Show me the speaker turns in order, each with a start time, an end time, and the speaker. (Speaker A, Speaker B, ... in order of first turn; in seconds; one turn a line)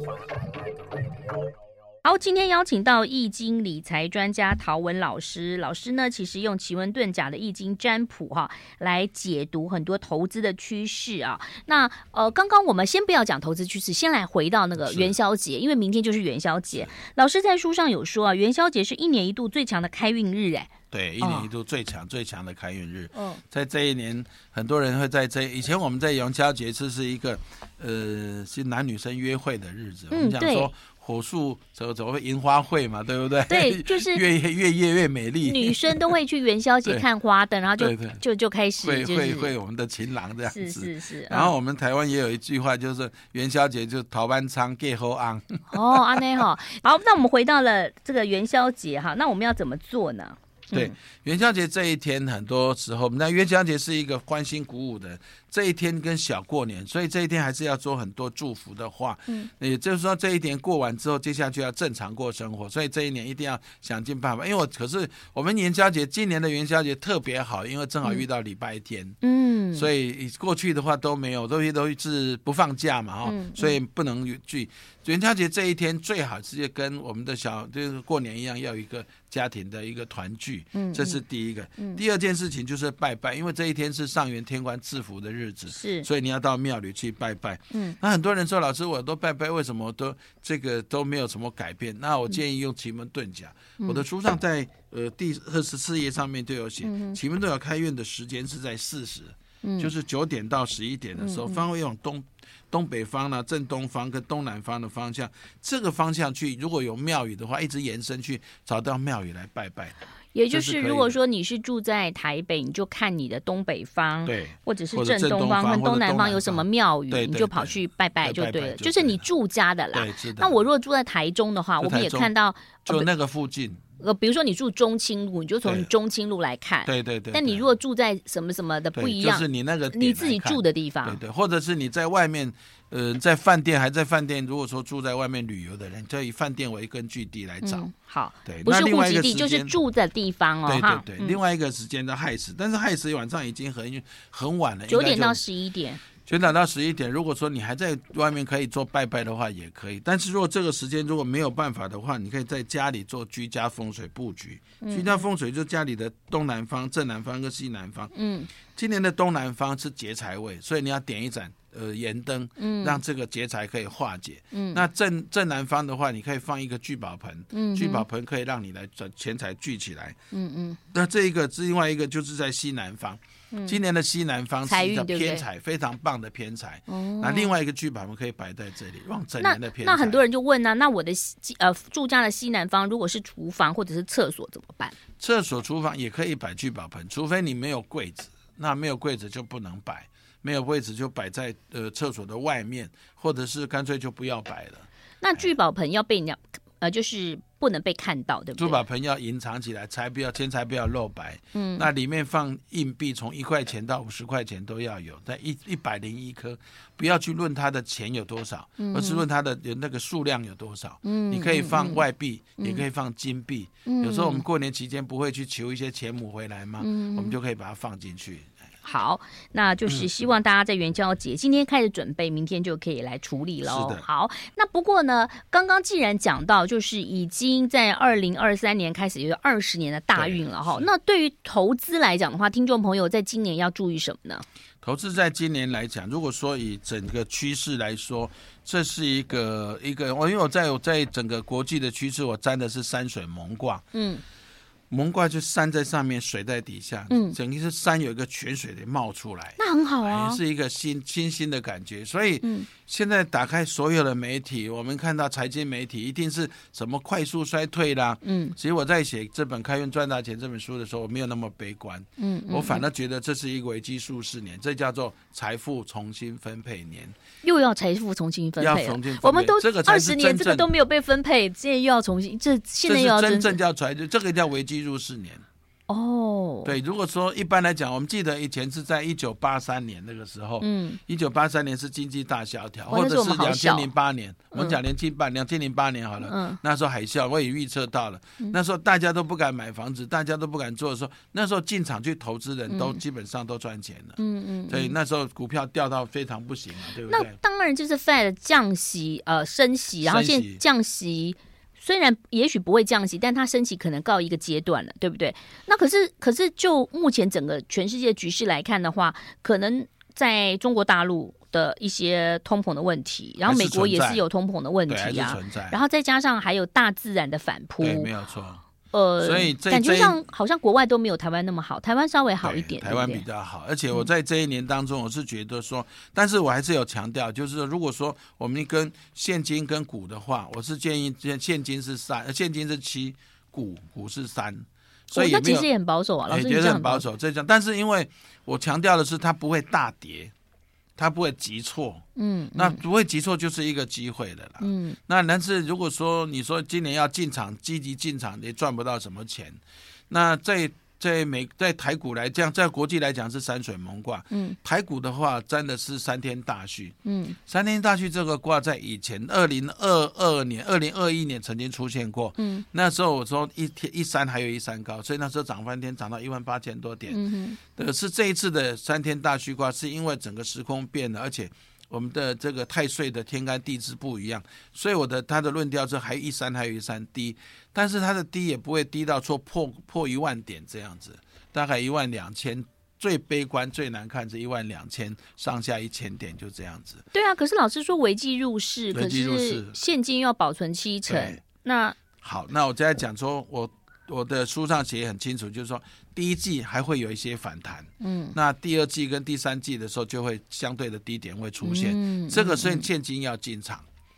Speaker A: 2.0-21.5
Speaker B: 14.8-15.1
Speaker B: 20.9-36.1
Speaker A: 23.1-23.4
Speaker A: 30.1-30.7
Speaker A: 33.5-34.2
Speaker A: 35.4-39.5
Speaker B: 37.8-38.2
Speaker B: 38.8-46.4
Speaker A: 40.4-41.5
Speaker A: 45.7-50.9
Speaker B: 50.7-69.2
Speaker A: 69.2-69.9
Speaker B: 69.7-109.9
Speaker A: 73.2-73.8
Speaker A: 80.7-81.2
Speaker A: 85.7-86.1
Speaker A: 96.8-97.2
Speaker A: 99.6-99.9
Speaker A: 101.2-101.6
Speaker A: 110.3-123.1
Speaker B: 110.5-111.2
Speaker B: 114.2-119.2
Speaker B: 119.9-120.6
Speaker B: 121.8-122.3
Speaker B: 122.8-123.8
Speaker A: 124.0-131.2
Speaker B: 126.8-127.7
Speaker B: 128.9-137.9
Speaker A: 137.6-141.4
Speaker B: 138.4-139.7
Speaker B: 140.7-145.4
Speaker A: 144.9-146.0
Speaker B: 146.2-170.2
Speaker A: 154.8-155.2
Speaker A: 158.1-158.5
Speaker A: 162.6-163.0
Speaker A: 164.5-164.8
Speaker A: 167.5-168.0
Speaker A: 170.3-170.8
Speaker B: 170.9-180.2
Speaker A: 173.5-173.8
Speaker A: 174.6-175.4
Speaker A: 176.9-177.5
Speaker A: 179.4-184.9
Speaker B: 185.2-195.5
Speaker A: 195.2-198.8
Speaker B: 198.6-218.5
Speaker A: 201.5-201.9
Speaker A: 208.8-209.2
Speaker A: 211.0-212.0
Speaker A: 212.6-212.8
Speaker A: 213.8-214.4
Speaker A: 216.8-217.3
Speaker A: 218.8-234.4
Speaker B: 223.6-224.0
Speaker B: 230.1-230.9
Speaker B: 234.8-243.8
Speaker A: 243.9-244.2
Speaker B: 244.9-267.1
Speaker A: 247.1-247.4
Speaker A: 249.6-250.4
Speaker A: 252.4-252.7
Speaker A: 258.2-258.6
Speaker A: 262.2-262.8
Speaker A: 267.4-273.6
Speaker B: 268.6-270.7
Speaker B: 272.9-275.4
Speaker A: 275.9-276.7
Speaker B: 276.6-297.4
Speaker A: 280.6-281.0
Speaker A: 282.9-283.9
Speaker A: 286.2-286.6
Speaker A: 292.7-293.0
Speaker A: 294.2-294.9
Speaker A: 297.1-318.1
Speaker B: 300.0-300.6
Speaker B: 313.4-314.2
Speaker B: 314.9-315.8
Speaker B: 317.8-318.6
Speaker A: 318.9-323.2
Speaker B: 319.2-320.2
Speaker B: 322.4-335.7
Speaker A: 335.1-337.1
Speaker B: 336.3-340.3
Speaker B: 341.0-342.0
Speaker A: 342.1-342.8
Speaker B: 342.5-387.1
Speaker A: 344.6-345.0
Speaker A: 354.3-354.6
Speaker A: 357.0-357.4
Speaker A: 362.4-362.6
Speaker A: 367.1-367.6
Speaker A: 387.1-391.9
Speaker B: 388.9-389.8
Speaker B: 391.1-391.4
Speaker B: 392.2-403.9
Speaker A: 398.0-398.4
Speaker A: 401.6-402.9